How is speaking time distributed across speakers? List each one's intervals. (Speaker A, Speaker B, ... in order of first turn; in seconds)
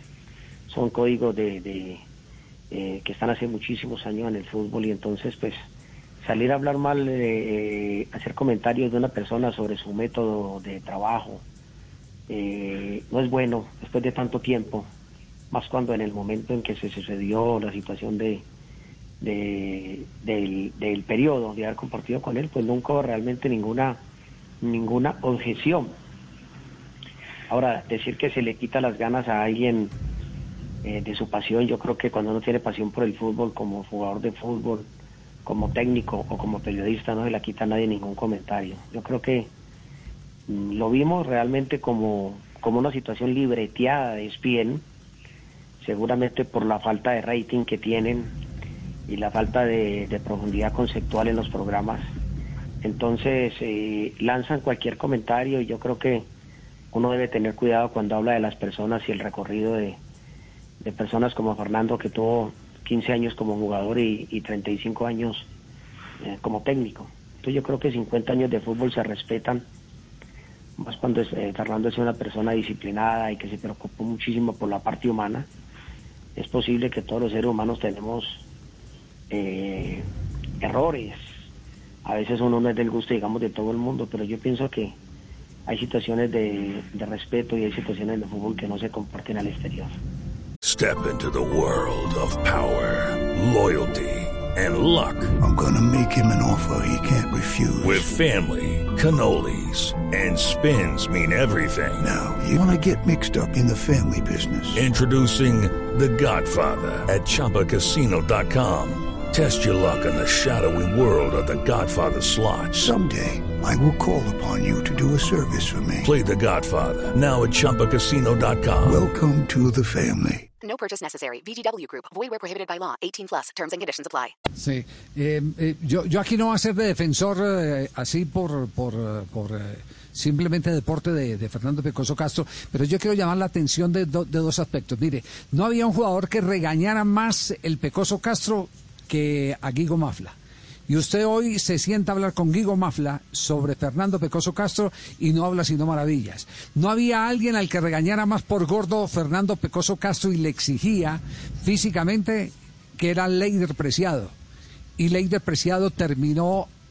Speaker A: 0.7-2.0, 2.7-5.7, 6.2-11.4, 12.3-14.9, 15.5-18.4, 19.2-24.0, 24.6-25.9, 27.5-29.9, 30.8-34.9, 35.5-39.5, 40.5-44.8, 45.8-48.4, 49.1-52.1, 52.8-56.3, 56.9-60.0, 60.8-65.5, 66.2-69.7, 70.8-75.5, 76.4-78.4, 79.3-80.1, 80.6-81.2, 82.0-85.0, 85.7-89.9
Speaker B: 90.6-95.3, 97.8-102.1, 104.8-112.9, 116.0-119.0
Speaker C: 95.4-98.2, 102.0-104.9, 112.7-116.2, 118.8-120.5
Speaker D: 120.6-124.3
Speaker E: 124.6-140.3, 140.9-154.3, 155.0-156.7